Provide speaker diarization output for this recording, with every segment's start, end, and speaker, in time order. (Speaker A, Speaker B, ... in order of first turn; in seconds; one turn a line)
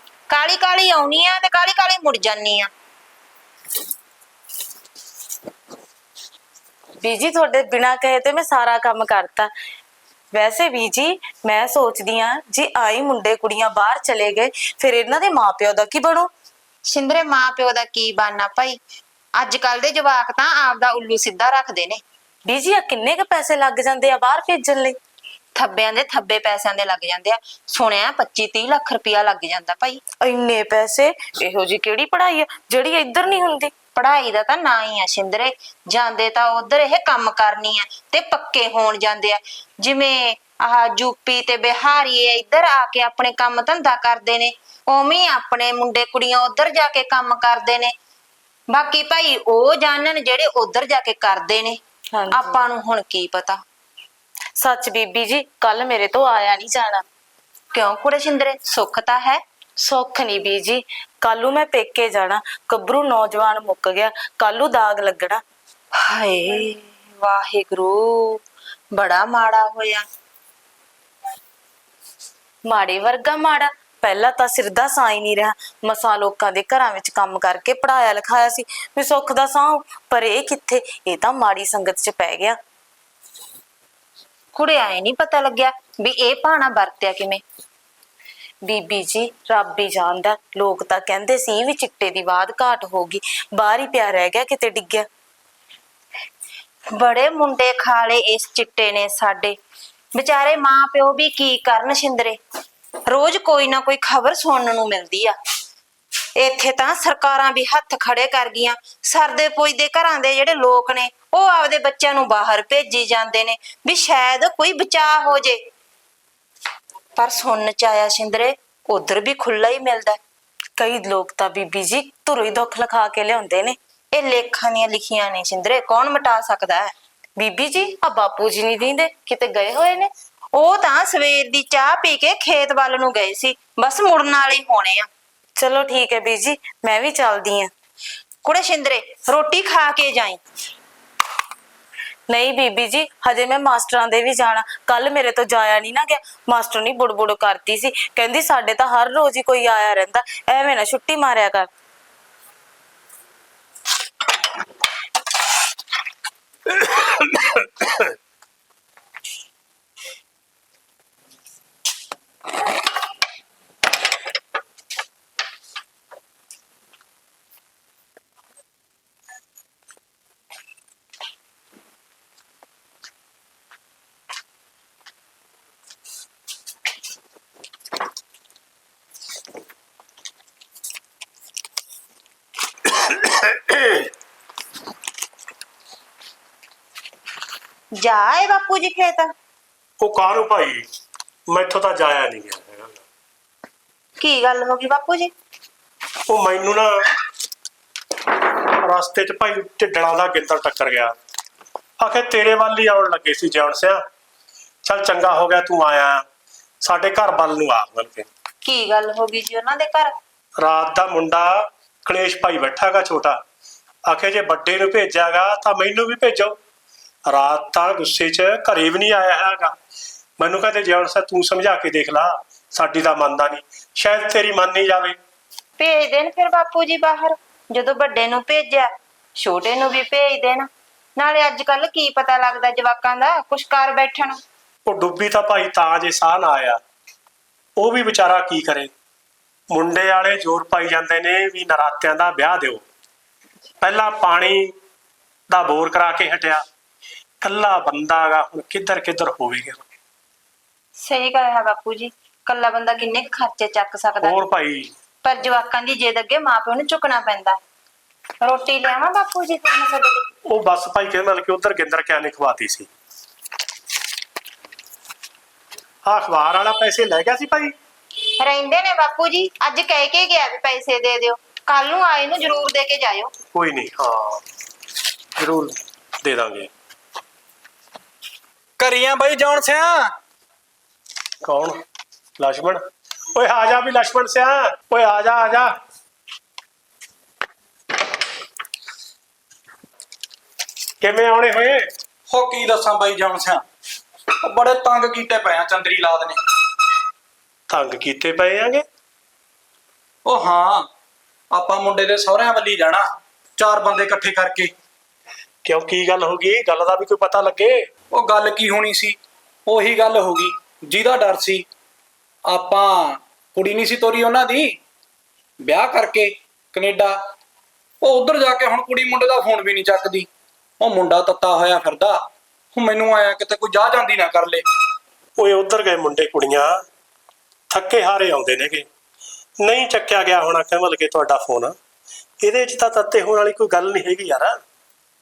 Speaker A: 0.3-2.7
Speaker B: 7.0-9.5
Speaker B: 10.3-16.3
Speaker A: 16.9-18.8
Speaker A: 19.4-22.0
Speaker B: 22.4-25.0
Speaker A: 25.6-30.0
Speaker B: 30.2-33.7
Speaker A: 34.0-47.9
Speaker A: 48.7-51.8
Speaker B: 52.1-52.6
Speaker A: 52.3-53.6
Speaker B: 54.6-57.0
Speaker A: 57.7-59.4
Speaker B: 59.8-65.4
Speaker A: 66.0-68.4
Speaker A: 69.0-70.1
Speaker B: 72.7-82.6
Speaker A: 84.5-87.4
Speaker B: 88.7-95.1
Speaker A: 97.0-99.5
Speaker A: 100.2-102.4
Speaker A: 103.1-105.4
Speaker A: 106.4-115.6
Speaker A: 117.2-120.2
Speaker B: 120.8-123.8
Speaker A: 124.1-126.9
Speaker B: 127.4-130.1
Speaker A: 130.6-135.1
Speaker B: 135.6-137.7
Speaker A: 138.4-140.4
Speaker B: 142.3-151.7
Speaker C: 183.0-184.1
Speaker A: 188.0-189.3
Speaker C: 190.0-190.9
Speaker C: 191.5-193.0
Speaker A: 194.2-195.3
Speaker C: 196.3-196.9
Speaker C: 198.8-201.2
Speaker C: 202.0-204.0
Speaker C: 204.8-206.2
Speaker C: 206.8-208.3
Speaker A: 208.6-210.1
Speaker C: 210.6-213.4
Speaker C: 214.1-216.6
Speaker C: 217.3-219.8
Speaker C: 220.4-225.2
Speaker A: 225.8-228.9
Speaker A: 229.4-234.4
Speaker C: 234.9-236.8
Speaker C: 237.8-238.9
Speaker C: 239.7-242.8
Speaker C: 243.8-244.7
Speaker C: 245.5-246.6
Speaker C: 247.4-249.8
Speaker A: 251.0-254.4
Speaker C: 254.2-254.9
Speaker A: 255.2-257.6
Speaker A: 258.4-260.2
Speaker C: 260.5-262.9
Speaker C: 266.1-267.7
Speaker A: 268.4-273.3
Speaker C: 273.5-274.4
Speaker C: 275.4-276.7
Speaker D: 278.8-280.1
Speaker C: 281.4-281.8
Speaker C: 282.4-282.8
Speaker C: 283.4-285.7
Speaker C: 291.0-291.9
Speaker D: 292.3-293.6
Speaker D: 294.4-296.4
Speaker C: 297.7-298.9
Speaker D: 300.2-300.9
Speaker D: 301.5-304.7
Speaker C: 305.6-307.8
Speaker D: 308.1-311.7
Speaker D: 312.5-314.8
Speaker D: 315.6-317.2
Speaker D: 318.0-320.3
Speaker D: 320.8-324.6
Speaker C: 325.4-326.8
Speaker C: 327.7-328.9
Speaker C: 329.6-331.8
Speaker C: 332.4-334.6